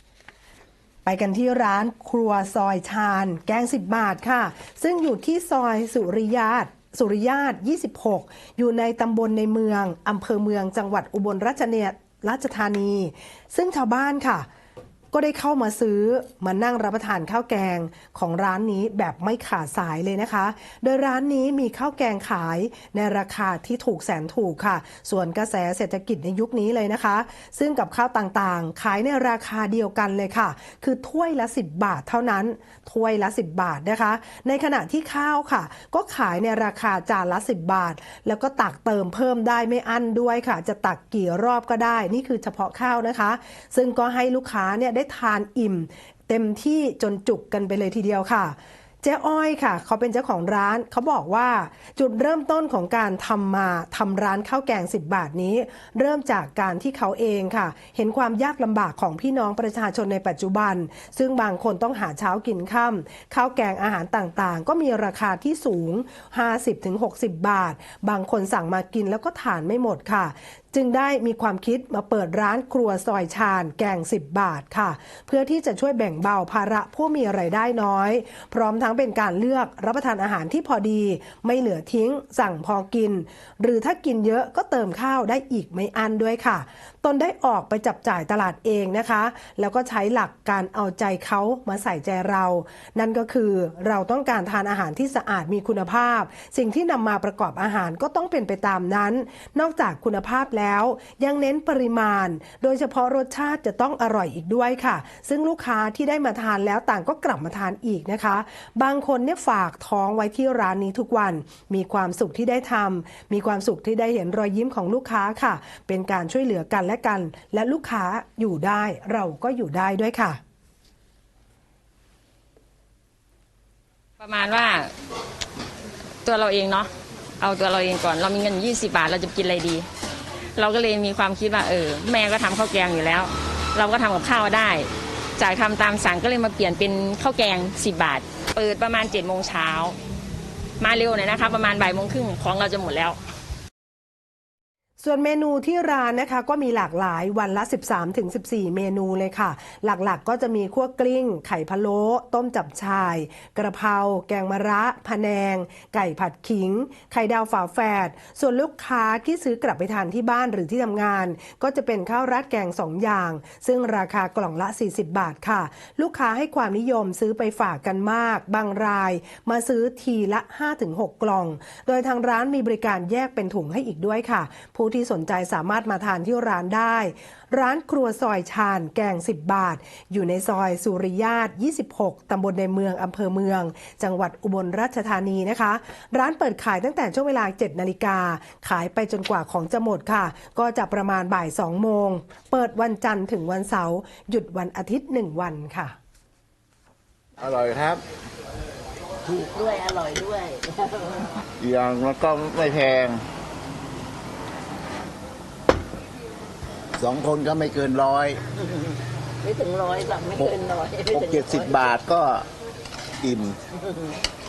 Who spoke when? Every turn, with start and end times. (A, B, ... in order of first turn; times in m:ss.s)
0:01.0-0:14.5 A
0:15.1-2:00.4 A
2:04.2-2:04.9 B
2:06.2-2:06.9 B
2:07.4-2:09.9 B
2:10.6-2:19.9 B
2:20.8-2:23.2 B
2:25.0-3:15.9 A
3:17.4-3:18.0 C
3:19.2-3:21.4 D
3:21.6-3:23.2 C
3:27.0-3:28.4 C
3:28.6-3:31.9 D
3:31.1-3:32.5 C
3:33.2-3:33.6 C
3:33.7-3:34.2 D